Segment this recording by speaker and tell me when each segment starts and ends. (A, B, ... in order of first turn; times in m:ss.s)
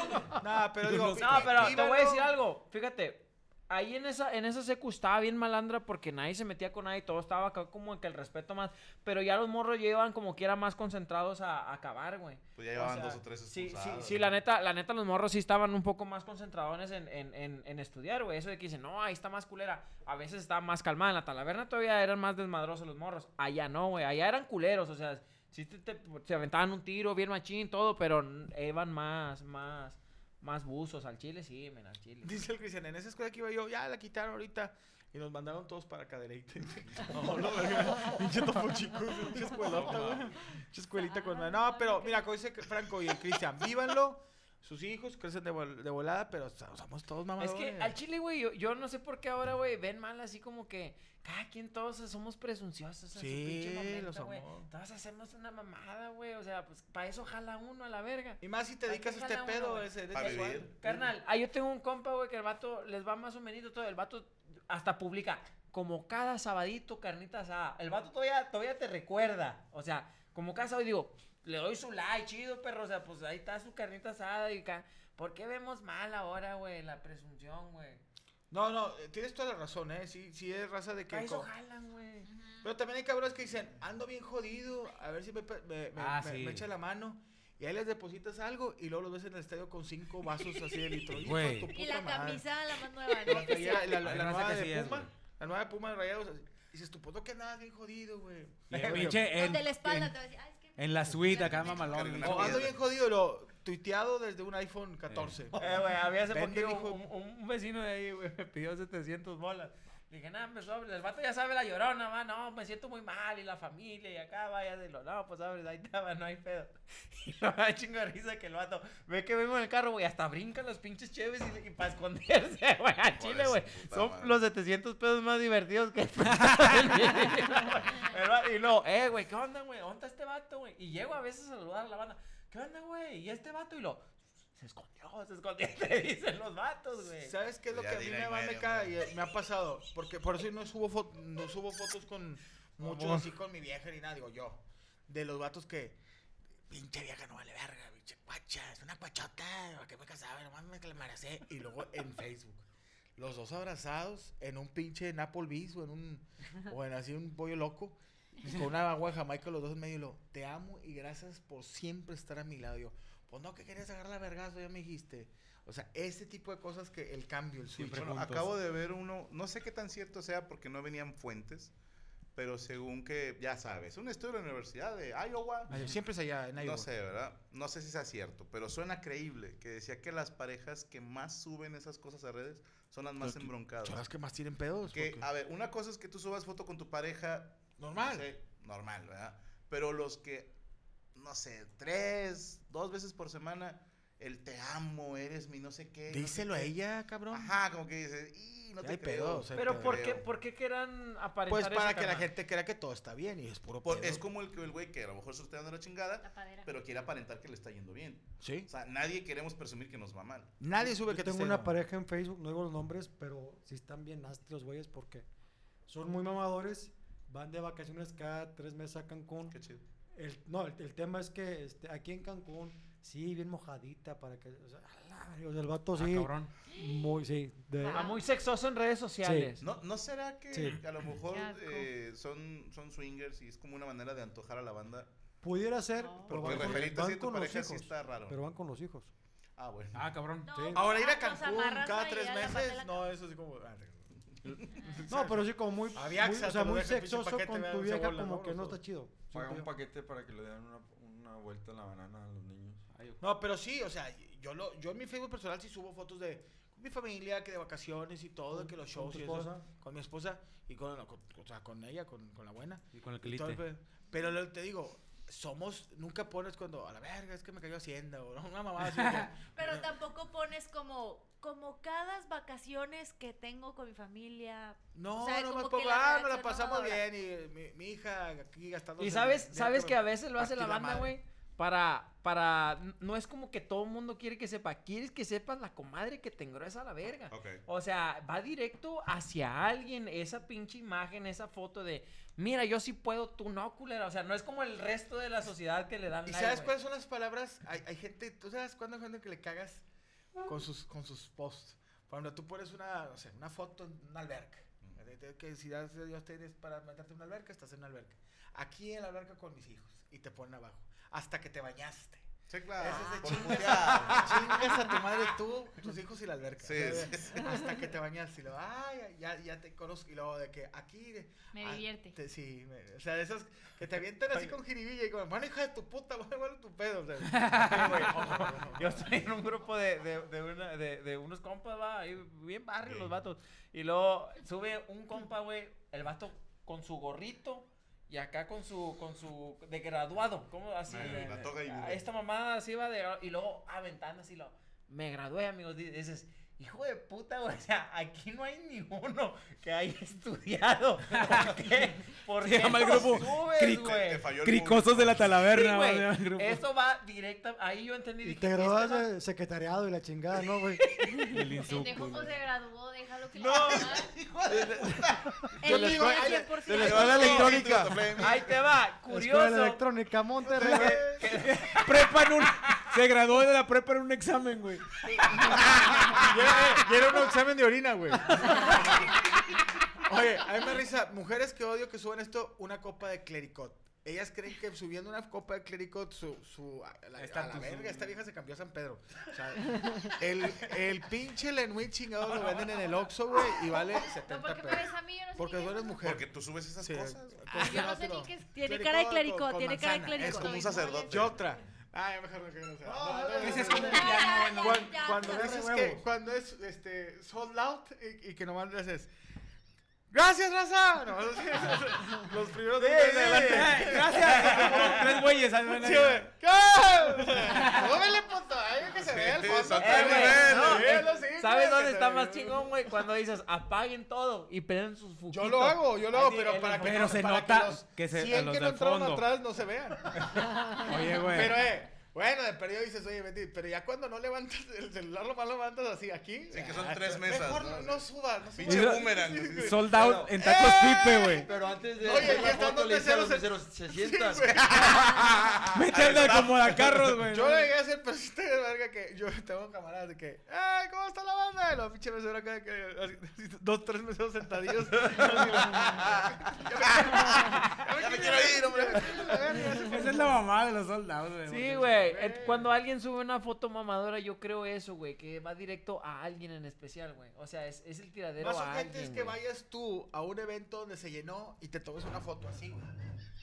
0:00.4-0:02.3 A
0:00.8-0:01.8 B
0:01.2-0:32.3 C
0:12.6-0:14.4 D
0:32.2-0:48.0 A
0:39.7-0:40.2 B
0:41.4-0:42.2 E
0:47.4-1:18.0 C
0:53.2-0:54.7 A
0:58.4-1:01.1 A
1:00.1-1:00.7 D
1:18.5-1:21.5 A
1:21.1-1:22.3 C
1:22.3-1:22.7 E
1:22.6-1:32.4 A
1:26.0-1:26.6 B
1:31.2-1:31.7 B
1:31.7-1:34.0 F
1:33.1-1:39.4 A
1:33.3-1:35.1 B
1:38.7-1:40.2 B
1:38.8-1:39.2 C
1:39.4-1:42.0 F
1:39.4-1:40.0 E
1:40.8-1:42.6 B
1:41.6-1:42.8 D
1:42.2-1:45.7 A
1:45.1-1:45.4 B
1:45.5-2:17.4 C
1:46.3-1:47.0 A
2:03.1-2:04.4 D
2:06.3-2:07.1 B
2:17.2-2:26.0 A
2:17.7-2:19.0 D
2:22.8-2:23.3 C
2:26.7-2:32.6 A
2:33.2-2:48.2 A
2:47.8-2:48.6 B
2:48.0-2:51.7 D
2:52.4-2:55.7 D
2:55.7-2:56.0 B
2:55.7-2:56.9 A
2:56.6-3:04.1 D
3:03.2-3:05.3 A
3:04.9-3:10.5 D
3:07.8-3:08.3 A
3:11.2-3:16.7 D
3:16.1-3:17.6 A
3:17.3-3:20.3 D
3:18.8-3:20.0 A
3:19.6-3:22.3 C
3:21.5-3:24.2 A
3:23.8-3:30.5 D
3:26.2-3:26.7 E
3:28.4-3:28.7 A
3:30.6-3:31.8 A
3:30.8-3:35.3 G
3:35.9-3:39.6 G
3:39.5-3:39.8 D
3:40.2-3:48.1 G
3:46.0-3:46.5 B
3:47.8-3:48.2 E
3:47.9-3:49.6 C
3:49.2-3:49.6 G
3:49.6-3:55.1 D
3:50.5-3:50.8 G
3:51.2-3:51.9 E
3:55.4-3:59.1 G
3:56.0-3:56.4 E
3:56.3-3:58.4 D
3:59.6-4:00.1 D
3:59.9-4:00.5 B
4:00.4-4:00.9 G
4:00.4-4:03.0 F
4:00.7-4:04.1 A
4:04.8-4:08.8 A
4:05.1-4:09.7 G
4:09.3-4:12.8 H
4:12.9-4:13.2 B
4:13.2-4:29.9 A
4:18.5-4:19.7 G
4:22.9-4:23.6 B
4:28.9-4:29.3 B
4:29.5-4:37.0 F
4:35.0-4:41.2 A
4:39.0-4:56.7 C
4:47.3-4:47.6 D
4:56.3-4:59.8 A
5:00.4-5:29.0 A
5:12.5-5:14.8 D
5:16.6-5:17.6 D
5:21.5-5:22.2 E
5:27.4-5:28.3 B
5:27.6-5:54.2 C
5:32.8-5:33.2 D
5:40.9-5:42.0 D
5:51.1-5:51.6 B
5:52.4-5:56.6 B
5:52.8-5:55.6 D
5:55.5-5:59.1 C
5:58.2-6:01.2 G
6:01.3-6:02.4 B
6:01.6-6:04.1 E
6:03.4-6:04.0 C
6:03.5-6:05.6 D
6:04.5-6:08.2 H
6:05.6-6:07.6 F
6:05.6-6:07.7 A
6:06.7-6:08.7 D
6:08.2-6:09.8 C
6:09.1-6:11.3 G
6:10.4-6:11.0 D
6:10.5-6:12.8 C
6:11.4-6:16.0 B
6:16.1-6:19.3 A
6:19.9-6:36.3 A
6:27.2-6:28.2 B
6:34.0-6:36.0 E
6:36.0-6:37.9 D
6:36.8-6:49.1 A
6:37.5-6:38.5 E
6:38.0-6:41.2 F
6:40.2-6:41.4 D
6:42.8-6:44.1 G
6:43.4-6:45.0 B
6:44.0-6:45.4 F
6:44.4-6:44.8 E
6:44.9-6:46.0 G
6:50.1-7:02.9 A
6:52.8-6:55.1 C
6:53.2-6:56.3 B
6:57.4-6:58.0 B
6:59.0-7:01.1 D
6:59.8-7:07.0 C
7:05.3-7:25.3 A
7:06.5-7:09.2 B
7:10.8-7:11.6 B
7:16.5-7:19.8 D
7:18.6-7:21.5 B
7:19.9-7:20.4 H
7:21.4-7:24.8 H
7:24.5-7:27.0 D
7:25.7-7:27.7 B
7:26.0-7:26.5 A
7:27.1-7:40.4 A
7:35.1-7:39.7 D
7:39.8-7:42.0 B
7:41.5-7:49.4 C
7:41.9-7:42.7 A
7:48.4-7:53.0 A